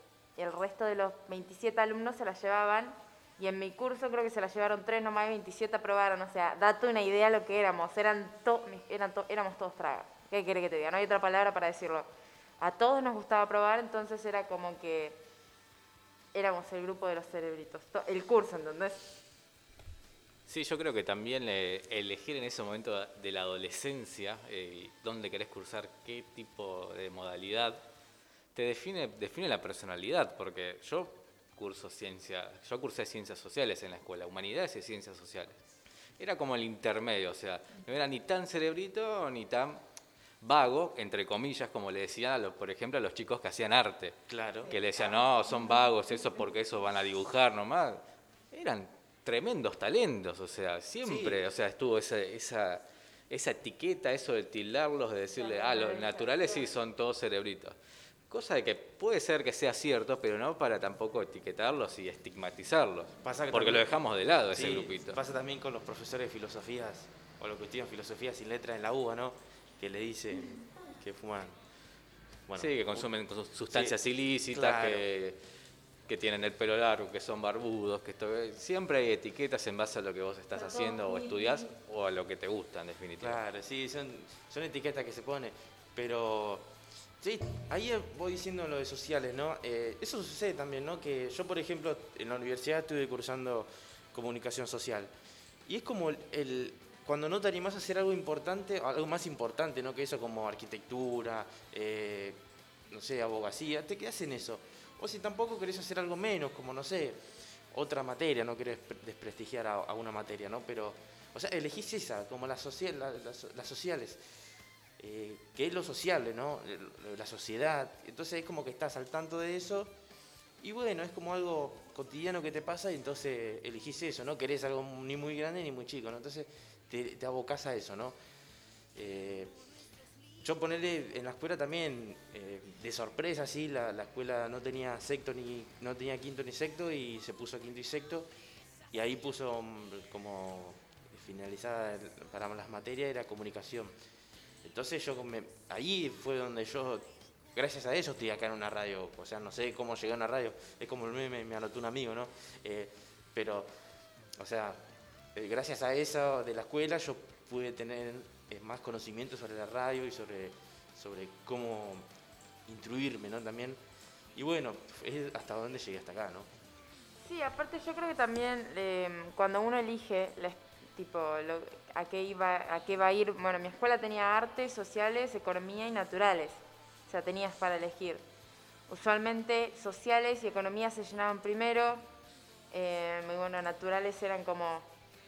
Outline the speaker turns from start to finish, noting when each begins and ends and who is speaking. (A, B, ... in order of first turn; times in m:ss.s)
0:00.4-0:12.1 A
0:12.6-0:15.2 A
0:16.3-0:19.1 A
0:20.5-0:27.8 B
0:28.5-0:35.6 B
0:36.2-0:39.8 B
0:40.4-0:44.2 B
0:44.3-0:44.7 C
0:44.7-0:57.8 B
0:51.0-0:51.4 C
0:55.4-0:56.7 A
0:58.3-1:05.2 B
1:03.2-1:03.9 C
1:04.5-1:11.6 C
1:12.5-1:13.1 C
1:12.6-1:15.4 B
1:13.7-1:14.0 C
1:14.5-1:15.1 C
1:16.1-1:23.4 B
1:20.6-1:21.7 A
1:23.2-1:26.7 C
1:27.2-1:35.1 C
1:35.7-1:54.2 C
1:55.0-1:59.9 C
2:00.6-2:08.2 C
2:08.9-2:09.5 C
2:10.4-2:18.3 C
2:18.9-2:23.9 C
2:24.6-2:33.7 C
2:34.4-2:34.8 C
2:35.3-2:42.1 C
2:42.7-2:43.8 C
2:44.4-2:46.5 C
2:47.2-2:58.2 A
2:58.9-3:02.0 A
3:02.7-3:04.8 A